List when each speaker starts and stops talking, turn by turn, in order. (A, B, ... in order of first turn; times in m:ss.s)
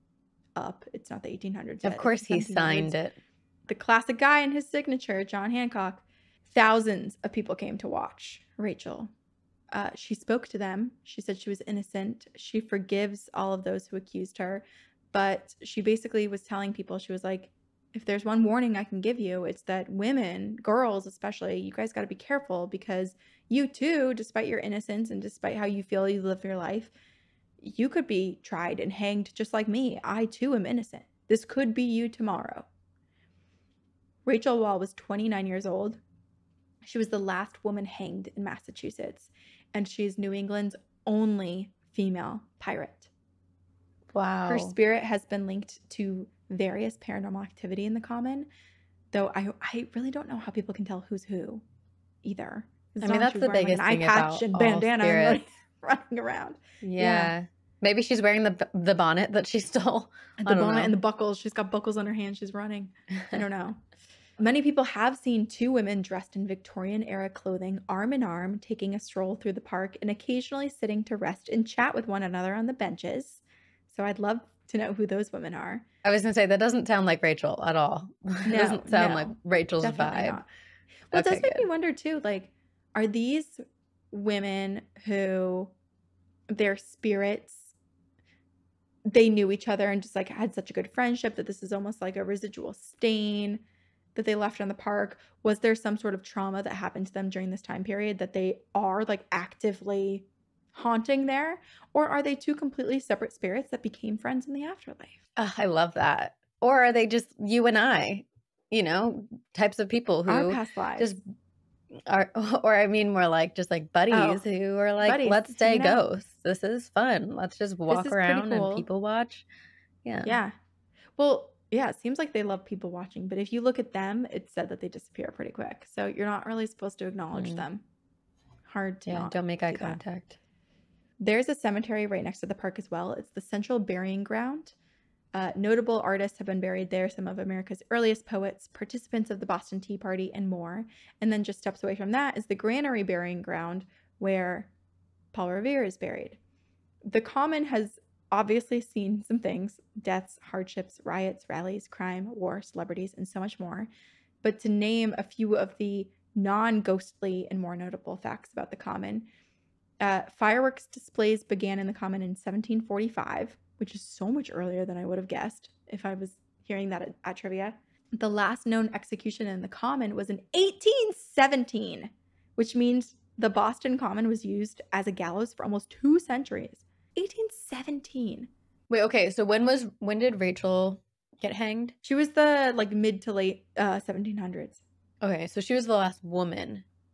0:00.6-0:03.0 A
0:01.8-0:03.2 B
0:03.7-0:09.1 A
0:09.7-0:26.9 A
0:27.6-0:32.6 A
0:34.2-0:36.0 A
0:36.8-0:43.1 A
0:44.1-0:44.7 B
0:44.4-0:48.5 A
0:49.1-0:51.6 A
0:52.2-0:57.3 A
0:53.0-0:55.4 B
0:56.8-1:00.9 B
1:00.4-1:03.8 A
1:04.4-1:15.8 A
1:16.0-1:20.4 B
1:18.4-1:20.4 A
1:21.1-1:23.6 A
1:21.1-1:21.6 B
1:24.1-1:25.7 A
1:26.5-1:27.7 A
1:29.1-1:33.6 A
1:34.1-1:45.2 A
1:45.4-1:51.2 B
1:50.3-1:51.2 A
1:51.9-1:59.4 B
1:54.1-1:54.4 A
1:55.0-1:56.0 A
1:57.9-1:58.8 A
2:00.0-2:00.4 B
2:00.2-2:00.5 A
2:01.2-2:07.8 A
2:07.3-2:07.6 B
2:08.7-2:10.0 A
2:09.0-2:10.4 B
2:11.2-2:14.7 A
2:15.3-2:24.7 A
2:25.3-2:26.4 A
2:27.0-2:33.9 A
2:34.4-2:39.2 A
2:40.0-2:58.5 A
2:58.9-3:01.9 B
3:02.0-3:04.8 A
3:05.2-3:06.8 B